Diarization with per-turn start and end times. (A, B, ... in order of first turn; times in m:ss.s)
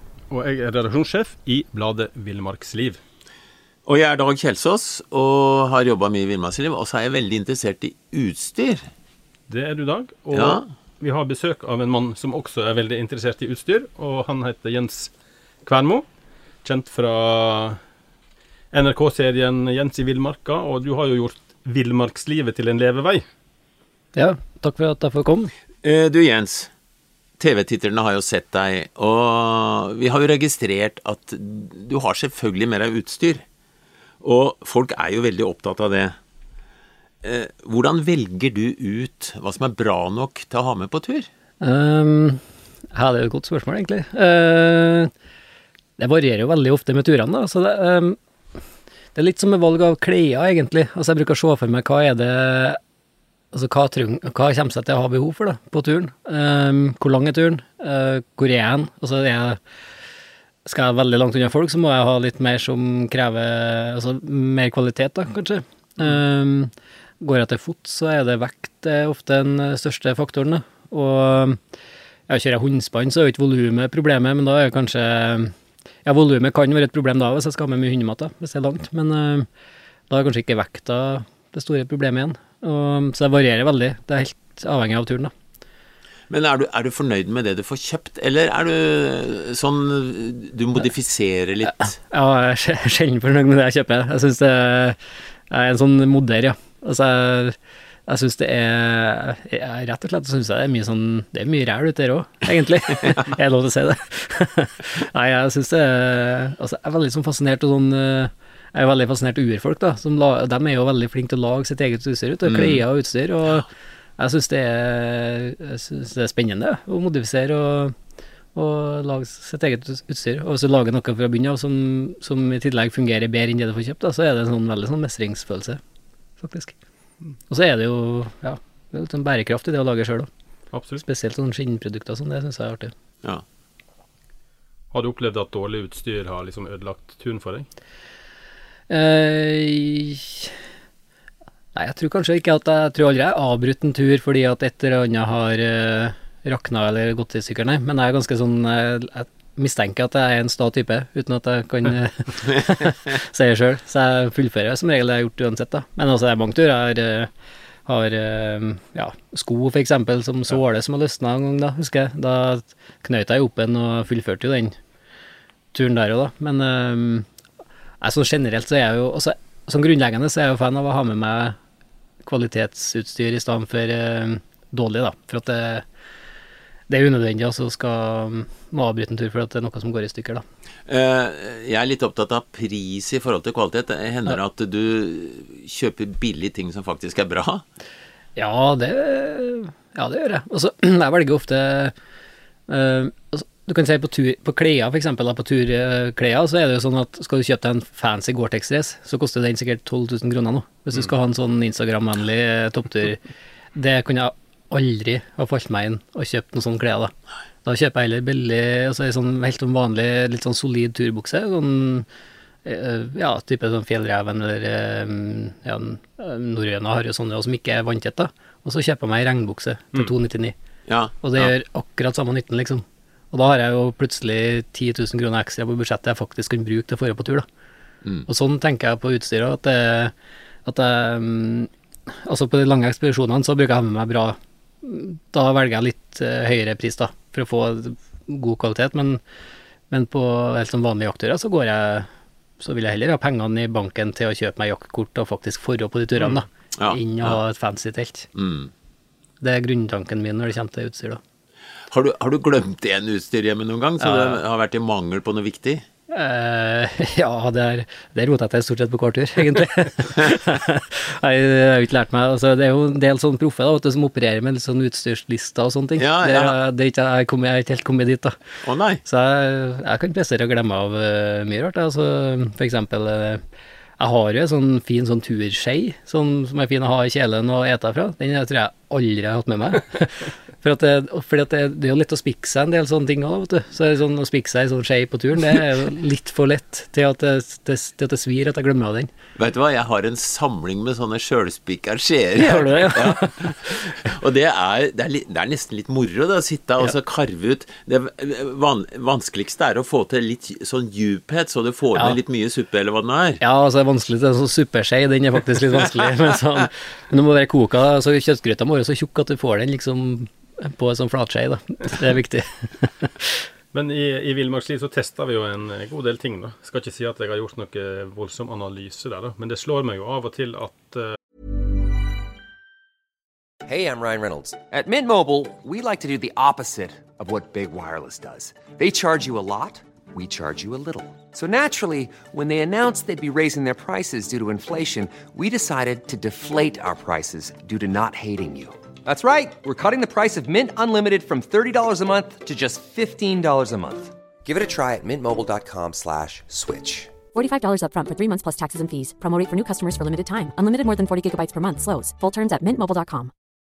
0:00.3-0:03.0 A
0:03.9-0:08.9 B
0:09.5-0:15.1 A
0:10.3-0:10.6 B
0:15.6-0:16.1 A
0:16.6-0:17.8 A
0:18.7-0:23.2 A
0:24.2-0:25.5 C
0:25.8-0:26.7 B
0:27.4-0:33.4 B
0:34.2-0:36.2 B
0:37.2-0:41.3 B
0:41.6-0:45.1 C
0:46.0-0:48.2 C
0:49.2-0:52.8 C
0:53.5-0:59.6 C
1:00.7-1:11.6 C
1:12.3-1:15.5 C
1:16.0-1:19.5 C
1:20.1-1:25.3 C
1:26.3-1:32.0 B
1:31.8-1:35.0 C
1:35.5-1:37.6 C
1:38.1-1:58.0 C
1:52.4-1:52.8 B
1:58.6-2:05.8 C
2:06.4-2:06.7 C
2:07.5-2:10.3 C
2:10.7-2:11.0 A
2:11.0-2:12.9 C
2:14.9-2:17.7 A
2:18.9-2:20.6 C
2:21.8-2:37.3 C
2:37.9-2:44.8 C
2:45.7-2:47.3 C
2:48.0-2:51.6 C
2:52.3-2:55.8 C
2:56.9-3:00.4 C
3:00.9-3:07.6 B
3:08.4-3:11.9 C
3:12.7-3:23.2 C
3:23.8-3:27.1 C
3:27.6-3:32.1 C
3:32.6-3:40.6 C
3:40.9-3:41.5 B
3:41.2-3:47.5 C
3:48.3-3:50.1 C
3:50.7-3:51.7 C
3:52.2-3:59.2 C
3:59.9-4:02.1 C
4:02.6-4:08.3 C
4:06.2-4:07.4 B
4:08.4-4:08.7 B
4:09.4-4:11.2 C
4:11.9-4:15.8 B
4:14.0-4:14.4 C
4:16.1-4:28.4 C
4:26.0-4:26.6 B
4:28.6-4:29.0 B
4:29.0-4:33.4 C
4:34.0-4:49.1 C
4:49.4-5:03.4 B
4:52.4-4:53.5 C
5:03.4-5:13.4 C
5:13.7-5:21.2 A
5:23.6-5:47.2 D
5:47.3-5:53.3 E